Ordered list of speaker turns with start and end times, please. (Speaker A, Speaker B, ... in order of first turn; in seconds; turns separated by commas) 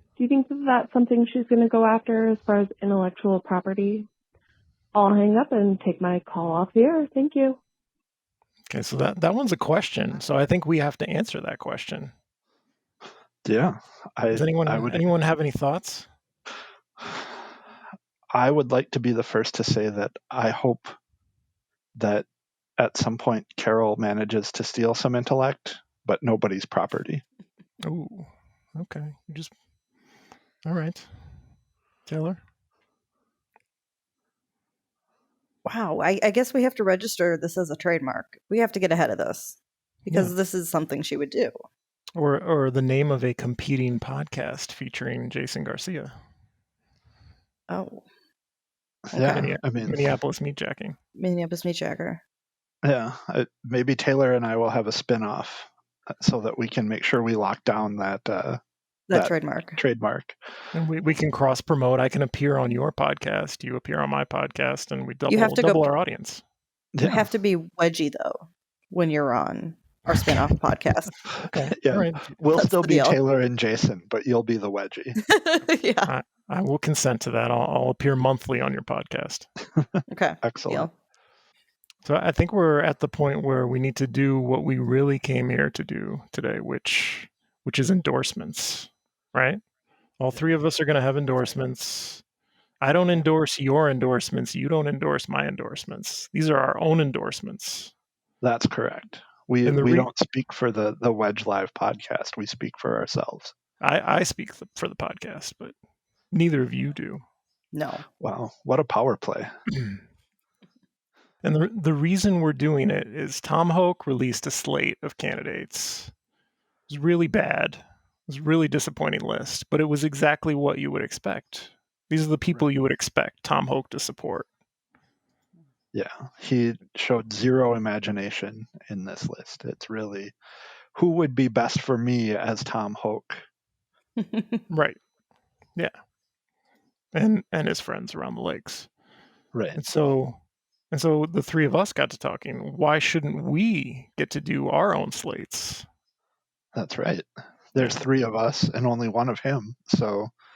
Speaker A: 0.1-4.1, Speaker A: 4.9-7.6, Speaker B: 8.7-12.1, Speaker C: 13.4-15.0, Speaker B: 14.3-16.1, Speaker C: 18.3-20.9, Speaker C: 21.9-22.3, Speaker C: 22.8-27.2, Speaker B: 27.8-29.5, Speaker B: 30.6-31.1, Speaker B: 32.0-32.4, Speaker D: 35.6-41.5, Speaker B: 40.1-40.3, Speaker B: 42.1-46.1, Speaker D: 47.7-48.0, Speaker C: 49.1-50.1, Speaker D: 49.1-49.5, Speaker B: 49.3-51.0, Speaker D: 51.1-52.2, Speaker C: 52.8-58.6, Speaker D: 59.1-59.8, Speaker C: 59.1-60.4, Speaker B: 60.7-66.4, Speaker D: 65.3-65.9, Speaker C: 66.9-67.2, Speaker D: 67.0-71.1, Speaker B: 71.4-72.4, Speaker C: 71.7-75.2, Speaker D: 72.5-73.2, Speaker D: 75.2-76.1, Speaker B: 76.0-79.5, Speaker D: 80.1-80.9, Speaker C: 80.4-80.9, Speaker B: 82.0-89.6, Speaker B: 90.2-92.2, Speaker B: 92.8-97.9, Speaker C: 98.4-103.5, Speaker B: 99.6-100.1, Speaker B: 103.8-105.7, Speaker B: 106.3-107.2, Speaker D: 107.7-108.0, Speaker C: 108.2-109.5, Speaker B: 111.4-116.1, Speaker B: 116.9-124.5, Speaker C: 125.9-130.3, Speaker C: 130.9-133.4, Speaker B: 134.7-135.0, Speaker B: 137.1-138.9, Speaker C: 139.5-139.8, Speaker B: 139.7-140.4, Speaker B: 140.9-145.8, Speaker C: 146.7-150.3, Speaker B: 147.8-148.0